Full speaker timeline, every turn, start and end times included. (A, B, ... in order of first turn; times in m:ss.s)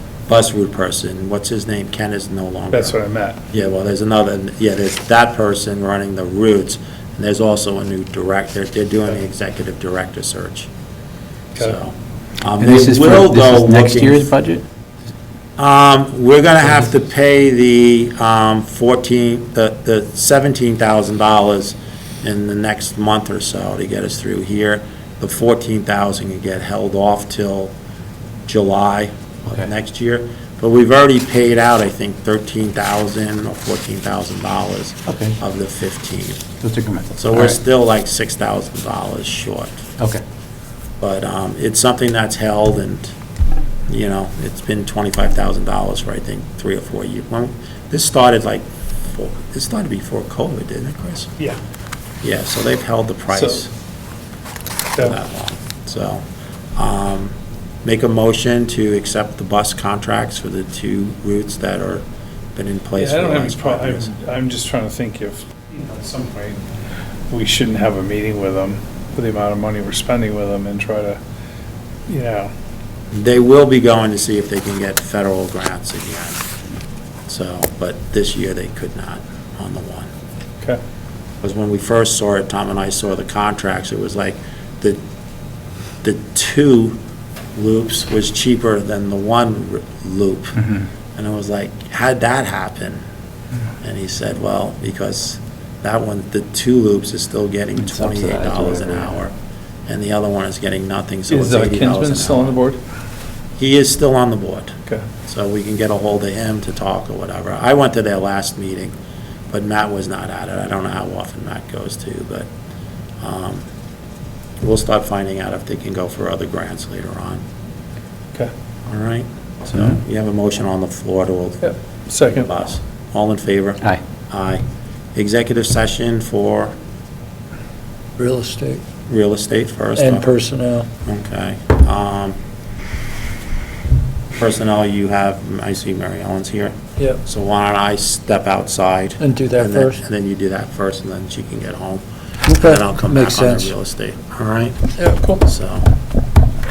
0:00.3-0:03.0 A
0:02.7-0:03.4 B
0:03.5-0:10.7 A
0:11.6-0:14.3 A
0:12.6-0:14.6 C
0:15.6-0:27.7 A
0:28.5-0:36.5 A
0:35.1-0:35.4 C
0:36.6-0:37.6 C
0:37.2-0:39.9 A
0:41.0-0:43.2 A
0:43.9-0:51.4 A
0:52.2-0:53.7 A
0:55.0-0:56.2 A
0:56.8-1:04.2 A
1:03.0-1:06.6 B
1:07.3-1:11.2 B
1:12.1-1:12.5 B
1:13.1-1:16.4 A
1:17.3-1:20.1 A
1:21.4-1:25.0 A
1:26.0-1:27.0 A
1:27.6-1:33.0 A
1:33.8-1:39.3 A
1:37.8-1:39.1 C
1:39.9-1:42.6 A
1:41.3-1:42.8 B
1:43.6-1:49.0 A
1:49.5-1:52.5 A
1:53.2-1:53.6 A
1:54.6-1:57.4 A
1:58.9-2:04.6 A
2:01.6-2:02.5 B
2:05.2-2:06.7 A
2:08.2-2:08.8 D
2:09.1-2:10.3 A
2:10.0-2:10.9 D
2:11.0-2:12.4 A
2:14.4-2:25.9 A
2:19.2-2:20.0 D
2:22.5-2:23.7 D
2:25.0-2:25.4 D